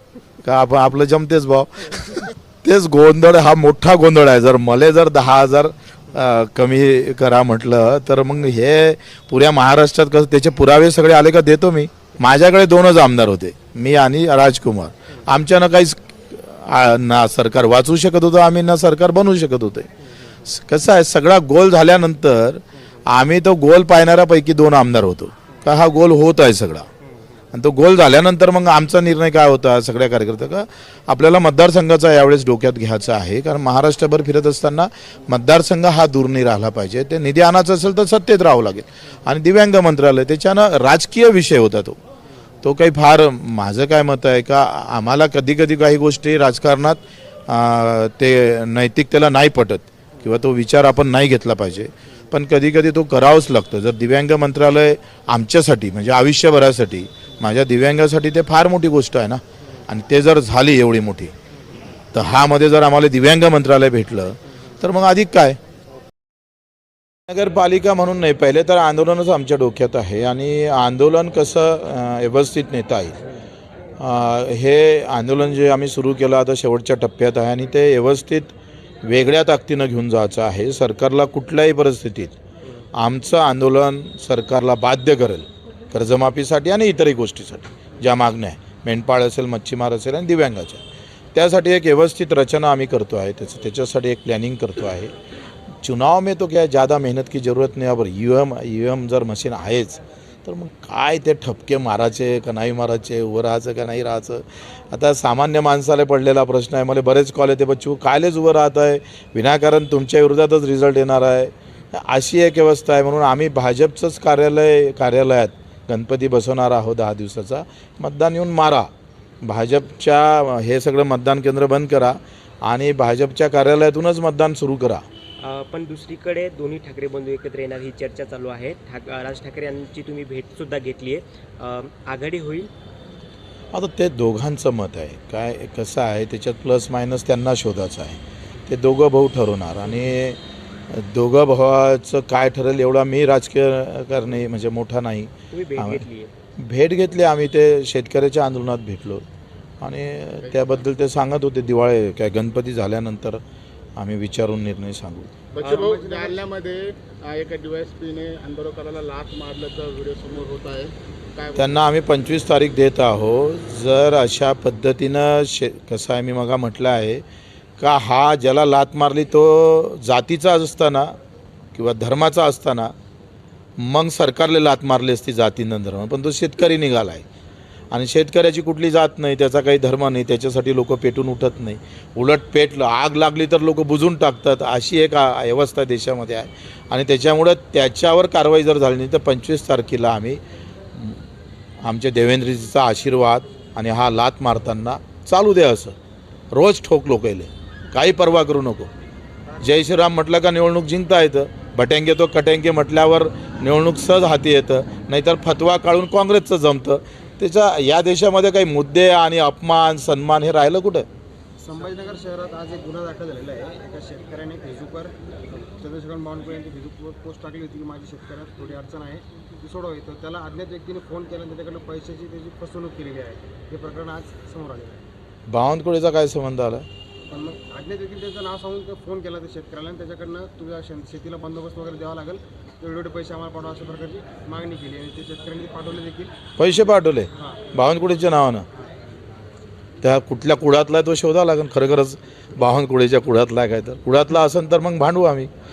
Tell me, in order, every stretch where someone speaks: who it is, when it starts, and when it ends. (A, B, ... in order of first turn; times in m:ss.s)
0:00.4-0:19.9 A
0:20.4-0:26.9 A
0:27.5-0:42.0 A
0:42.6-1:01.3 A
1:02.1-1:05.6 A
1:07.3-1:13.2 A
1:14.0-1:18.5 A
1:19.0-1:22.4 A
1:23.0-1:30.8 A
1:31.3-1:35.1 A
1:35.8-1:58.9 A
1:59.4-2:05.1 A
2:05.4-2:12.7 B
2:13.7-2:26.0 A
2:25.5-2:26.3 B
2:26.6-2:29.2 A
2:29.8-2:33.4 A
2:30.4-2:30.8 C
2:34.0-2:35.3 A
2:35.5-2:41.7 C
2:35.6-2:35.9 B
2:35.6-2:36.5 D
2:41.6-2:47.2 A
2:47.8-2:51.2 A
2:51.8-2:52.9 A
2:53.8-2:57.2 A
2:57.9-3:10.4 A
3:10.9-3:11.2 A
3:11.8-3:16.0 A
3:16.5-3:18.9 A
3:19.6-3:31.1 A
3:31.6-3:45.0 D
3:45.5-3:46.8 A
3:47.3-3:56.4 D
3:56.6-3:58.7 A
3:57.4-3:57.7 D
3:58.8-3:59.0 D
4:00.0-4:05.5 A